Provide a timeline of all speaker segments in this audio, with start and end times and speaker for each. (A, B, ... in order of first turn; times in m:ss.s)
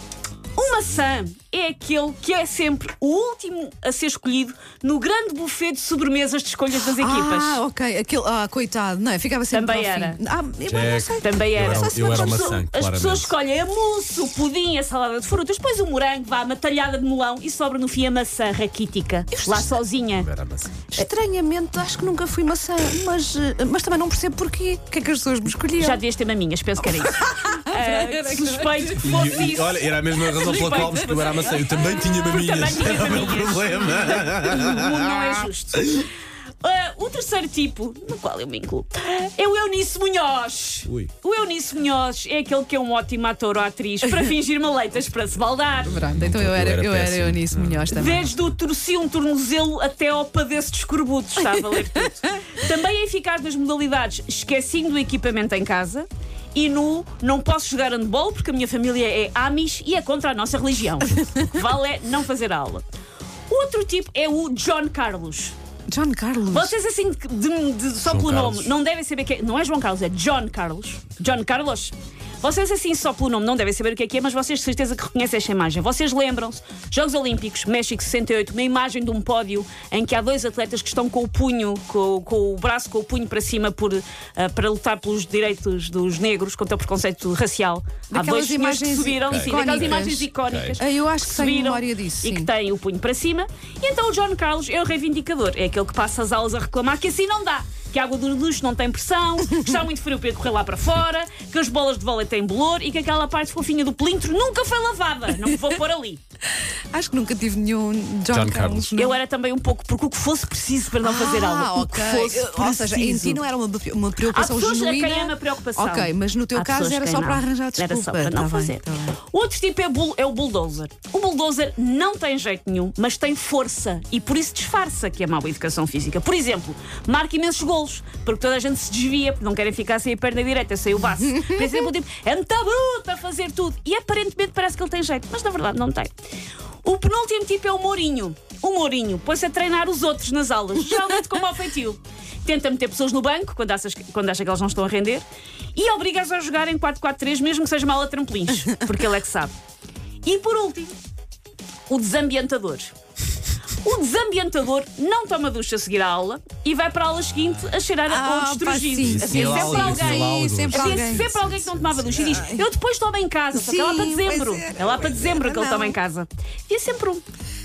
0:00.5-0:07.6 A
0:06.8-0:12.6 B
0:09.5-0:10.2 A
0:10.6-0:13.3 C
0:11.2-0:20.3 A
0:19.3-0:19.7 B
0:20.2-0:21.0 C
0:20.9-0:26.0 B
0:25.8-0:36.1 A
0:27.0-0:28.9 B
0:29.0-0:36.1 C
0:30.4-0:31.9 B
0:36.6-0:46.1 A
0:40.8-0:41.1 C
0:45.8-0:48.3 B
0:45.8-0:47.9 C
0:47.9-1:02.8 A
1:03.5-1:05.5 A
1:05.9-1:06.7 B
1:06.5-1:46.2 A
1:08.0-1:08.7 C
1:28.1-1:32.5 B
1:29.2-1:30.8 C
1:46.9-1:49.2 B
1:48.3-1:48.9 C
1:48.9-1:53.4 A
1:51.0-1:59.2 B
1:54.2-2:16.1 A
2:16.8-2:29.5 A
2:30.2-2:31.0 A
2:31.9-2:32.9 A
2:33.8-2:47.2 A
2:38.1-2:41.3 B
2:39.0-2:42.1 C
2:42.2-2:42.7 B
2:43.5-2:46.0 B